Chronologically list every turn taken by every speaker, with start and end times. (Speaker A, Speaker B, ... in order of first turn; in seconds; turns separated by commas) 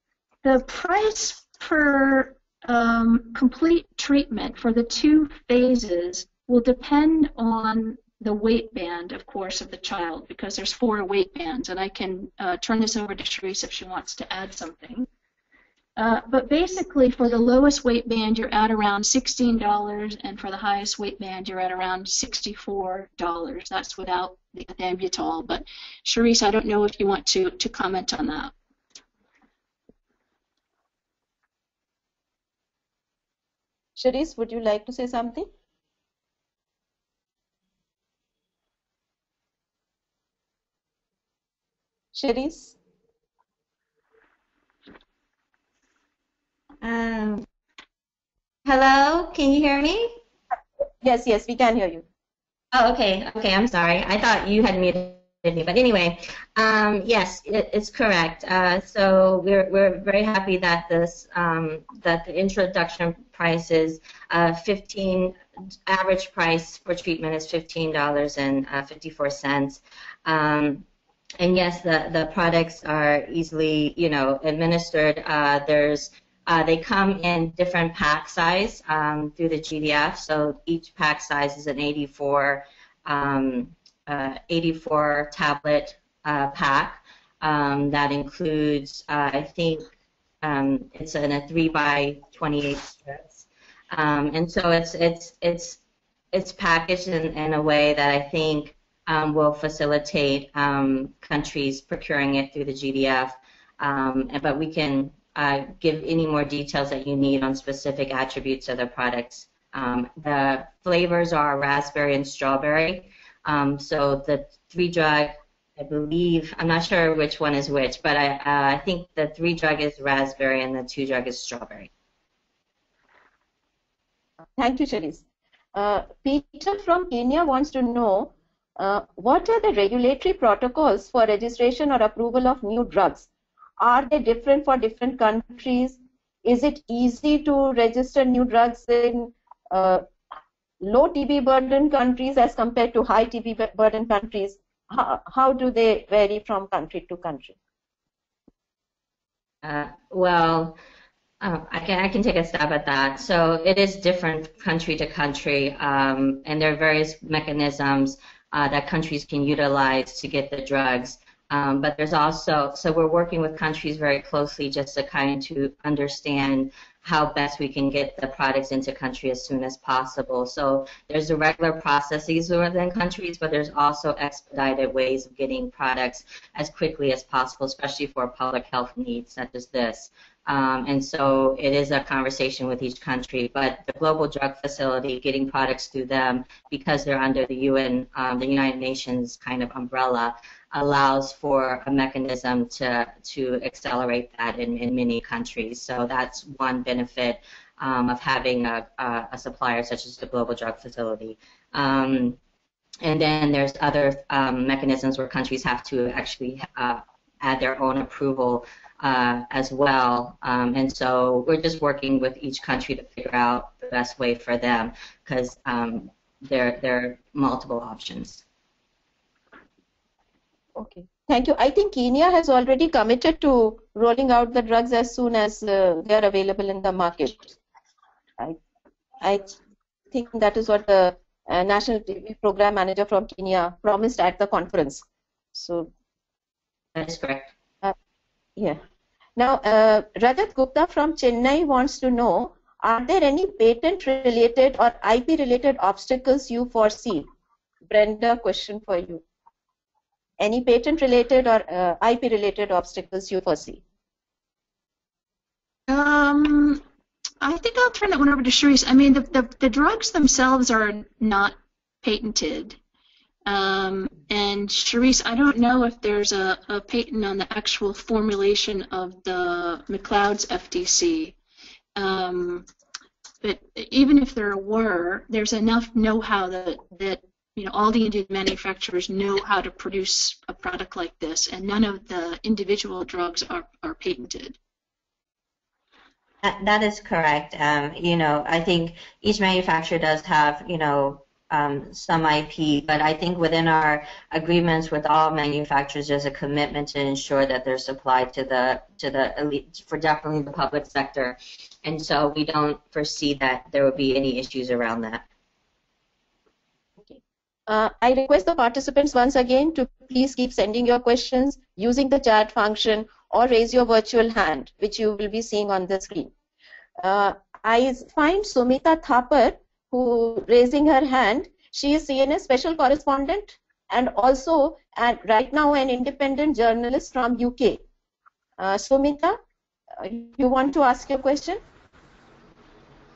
Speaker A: 0.4-15.1, Speaker A: 16.0-28.5, Speaker B: 34.0-35.5, Speaker B: 42.1-42.7, Speaker C: 46.8-47.4, Speaker C: 48.6-50.1, Speaker B: 51.0-52.0, Speaker C: 52.7-70.8, Speaker C: 71.4-89.8, Speaker C: 90.4-95.8, Speaker C: 96.3-121.9, Speaker B: 124.5-125.2, Speaker B: 125.7-133.3, Speaker B: 133.8-140.0, Speaker B: 140.8-147.6, Speaker C: 149.6-150.8, Speaker C: 151.4-202.4, Speaker C: 203.0-218.4, Speaker B: 220.8-227.6, Speaker B: 229.2-229.6, Speaker B: 230.1-235.9, Speaker C: 236.9-237.5, Speaker B: 239.4-247.2, Speaker B: 247.9-249.2, Speaker B: 250.4-253.8, Speaker A: 255.9-256.8, Speaker A: 257.4-262.8, Speaker A: 263.4-271.4, Speaker A: 271.9-272.7, Speaker A: 273.4-284.6, Speaker C: 286.4-305.2, Speaker B: 307.7-316.3, Speaker B: 317.0-327.8, Speaker B: 328.6-329.4, Speaker B: 330.0-331.6